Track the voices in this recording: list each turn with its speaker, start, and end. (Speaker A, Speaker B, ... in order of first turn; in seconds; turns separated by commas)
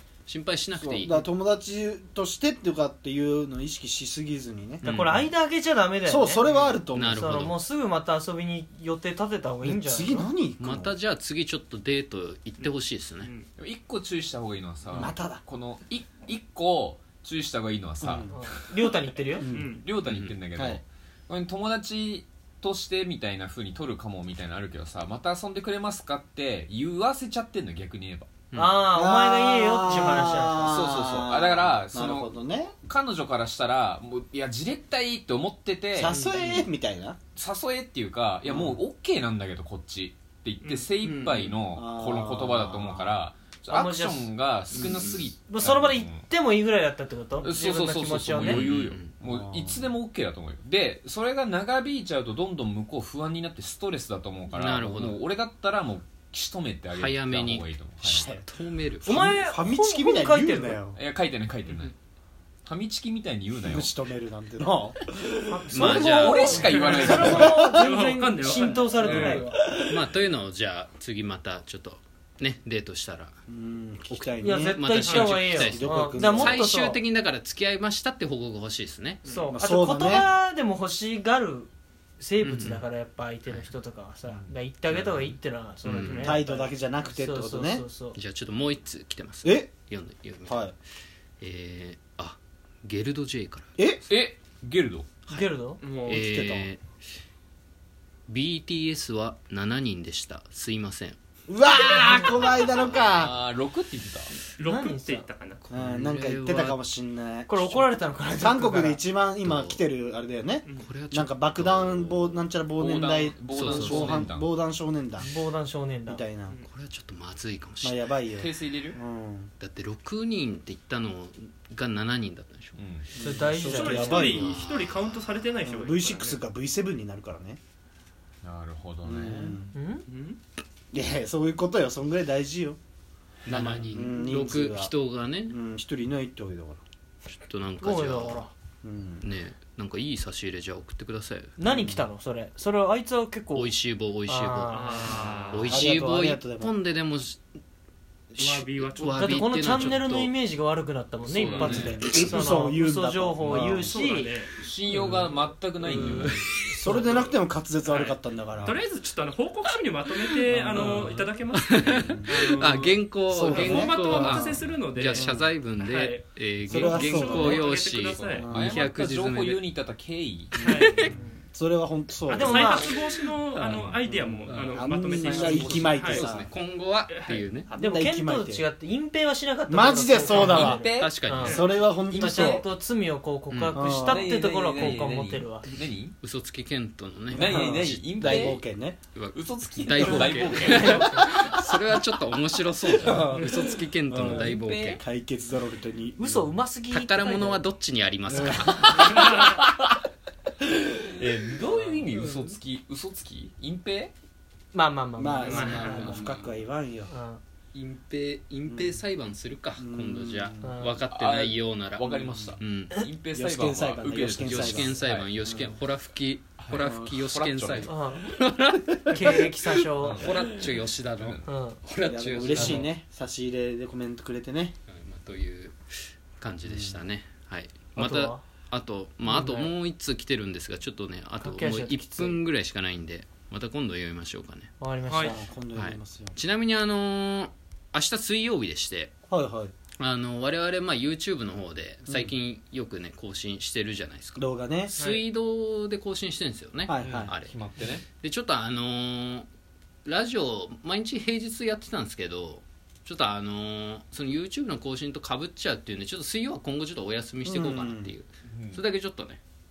Speaker A: 0.2-1.2, Speaker B: 0.7-4.8, Speaker A: 4.8-5.3, Speaker C: 4.8-10.3, Speaker B: 6.0-7.4, Speaker D: 6.5-6.8, Speaker A: 6.9-7.6, Speaker B: 9.6-10.9, Speaker A: 10.6-13.3, Speaker E: 13.6-18.6, Speaker B: 14.9-15.4, Speaker B: 18.0-18.3, Speaker C: 18.3-19.4, Speaker B: 19.4-19.8, Speaker D: 19.4-19.8, Speaker E: 19.8-28.3, Speaker A: 20.0-20.3, Speaker B: 20.5-20.8, Speaker A: 28.5-28.9, Speaker C: 28.5-30.8, Speaker B: 28.9-32.7, Speaker E: 30.6-32.3, Speaker E: 32.9-36.2, Speaker B: 35.9-37.2, Speaker D: 36.1-36.5, Speaker E: 37.4-46.3, Speaker B: 38.4-38.8, Speaker D: 40.6-41.3, Speaker B: 41.7-43.2, Speaker C: 43.7-44.4, Speaker A: 44.7-45.3, Speaker C: 45.4-48.7, Speaker E: 47.4-58.4, Speaker A: 48.4-49.1, Speaker B: 49.2-49.9, Speaker A: 54.5-55.2, Speaker A: 56.9-59.2, Speaker B: 58.0-58.4, Speaker B: 59.0-61.0, Speaker C: 59.0-60.8, Speaker E: 60.9-61.9, Speaker E: 62.6-63.9, Speaker B: 63.6-65.2, Speaker C: 65.5-69.6, Speaker A: 65.7-66.7, Speaker E: 65.7-67.7, Speaker D: 66.5-69.4, Speaker B: 67.2-67.8, Speaker B: 69.0-70.1, Speaker A: 69.8-73.3, Speaker B: 73.5-76.6, Speaker A: 74.1-79.2, Speaker C: 74.4-77.0, Speaker D: 75.0-75.3, Speaker D: 79.2-79.5, Speaker C: 79.3-88.2, Speaker B: 79.5-80.3, Speaker A: 82.4-82.8, Speaker A: 83.5-83.7, Speaker E: 84.2-84.5, Speaker A: 84.8-86.4, Speaker B: 86.0-87.8, Speaker A: 88.1-90.7, Speaker B: 89.4-89.7, Speaker B: 90.5-90.7, Speaker A: 91.4-93.7, Speaker E: 94.1-95.1, Speaker C: 95.3-95.8, Speaker D: 95.8-96.2, Speaker A: 96.0-96.8, Speaker B: 96.0-96.7, Speaker A: 98.3-101.2, Speaker B: 101.5-103.3, Speaker A: 102.4-103.1, Speaker E: 103.1-104.3, Speaker D: 104.6-105.7, Speaker C: 104.6-105.3, Speaker A: 105.7-106.8, Speaker B: 105.7-115.3, Speaker C: 107.5-109.0, Speaker A: 109.4-109.8, Speaker A: 110.8-112.4, Speaker E: 112.8-114.5, Speaker A: 113.5-114.2, Speaker C: 115.2-116.2, Speaker B: 116.1-116.5, Speaker A: 116.6-118.1, Speaker B: 117.8-119.5, Speaker E: 118.4-119.0, Speaker A: 119.6-122.9, Speaker E: 122.7-123.1, Speaker B: 123.2-124.6, Speaker C: 123.2-124.4, Speaker D: 123.7-126.4, Speaker A: 124.2-125.3, Speaker B: 125.6-127.6, Speaker E: 128.4-129.6, Speaker B: 129.0-129.7, Speaker C: 129.7-130.0, Speaker D: 130.1-130.4, Speaker B: 130.9-132.8, Speaker A: 133.4-135.6, Speaker B: 133.5-134.9, Speaker B: 135.4-136.8, Speaker A: 137.3-138.5, Speaker C: 137.8-138.5, Speaker B: 138.8-139.2, Speaker A: 139.2-141.5, Speaker C: 141.6-145.3, Speaker B: 141.6-142.1, Speaker A: 143.5-144.9, Speaker D: 144.7-145.8, Speaker A: 145.5-147.4, Speaker B: 145.6-146.8, Speaker A: 148.3-150.3, Speaker D: 148.4-149.6, Speaker C: 149.0-154.4, Speaker E: 151.2-152.0, Speaker B: 151.6-154.0, Speaker D: 153.8-154.5, Speaker E: 154.6-156.4, Speaker C: 154.9-155.3, Speaker A: 155.8-156.6, Speaker B: 156.0-158.8, Speaker C: 156.8-157.3, Speaker D: 157.0-157.3, Speaker D: 157.9-168.5, Speaker A: 160.2-160.8, Speaker B: 160.5-162.5, Speaker A: 161.5-169.6, Speaker B: 163.3-165.5, Speaker B: 166.7-167.7, Speaker E: 168.2-170.6, Speaker B: 168.3-168.8, Speaker A: 170.5-171.1, Speaker D: 170.5-171.1, Speaker B: 171.0-172.8, Speaker D: 172.3-176.2, Speaker C: 172.3-172.9, Speaker A: 173.5-174.9, Speaker B: 173.8-176.5, Speaker E: 175.2-176.0, Speaker A: 175.9-177.7, Speaker D: 177.1-177.4, Speaker B: 177.7-178.6, Speaker C: 177.8-185.7, Speaker B: 179.7-180.9, Speaker E: 180.3-181.2, Speaker A: 180.9-181.6, Speaker B: 181.4-182.7, Speaker E: 182.1-182.6, Speaker A: 183.5-183.9, Speaker B: 183.7-184.3, Speaker E: 183.9-186.1, Speaker A: 186.2-188.2, Speaker B: 187.3-189.0, Speaker E: 187.3-191.2, Speaker A: 189.1-195.0, Speaker C: 190.6-191.3, Speaker B: 192.9-194.5, Speaker E: 194.1-195.0, Speaker B: 195.0-196.5, Speaker C: 196.2-197.6, Speaker A: 196.9-199.3, Speaker B: 198.3-198.9, Speaker E: 198.7-200.0, Speaker E: 200.7-204.1, Speaker C: 204.7-206.2, Speaker B: 205.2-207.1, Speaker A: 205.4-206.6, Speaker D: 205.5-205.8, Speaker C: 207.1-207.4, Speaker A: 207.7-213.1, Speaker B: 208.7-209.0, Speaker B: 209.8-210.8, Speaker C: 210.6-211.0, Speaker E: 211.1-215.3, Speaker B: 212.2-212.6, Speaker B: 213.3-215.7, Speaker A: 214.4-222.9, Speaker E: 216.6-217.9, Speaker C: 217.8-218.4, Speaker C: 219.1-220.3, Speaker E: 220.0-220.4, Speaker C: 221.4-221.8, Speaker B: 222.1-224.8, Speaker E: 222.5-222.8, Speaker A: 224.9-225.8, Speaker A: 226.4-234.7, Speaker B: 226.6-227.0, Speaker C: 227.9-228.4, Speaker C: 229.2-229.7, Speaker C: 231.4-232.4, Speaker C: 234.8-235.4, Speaker D: 235.1-235.3, Speaker B: 235.2-236.3, Speaker A: 235.7-239.1, Speaker B: 239.3-239.7, Speaker A: 240.0-249.5, Speaker B: 244.4-244.9, Speaker D: 244.9-245.2, Speaker B: 246.8-247.3, Speaker E: 247.0-248.1, Speaker A: 250.0-259.4, Speaker B: 257.4-258.1, Speaker E: 258.5-258.8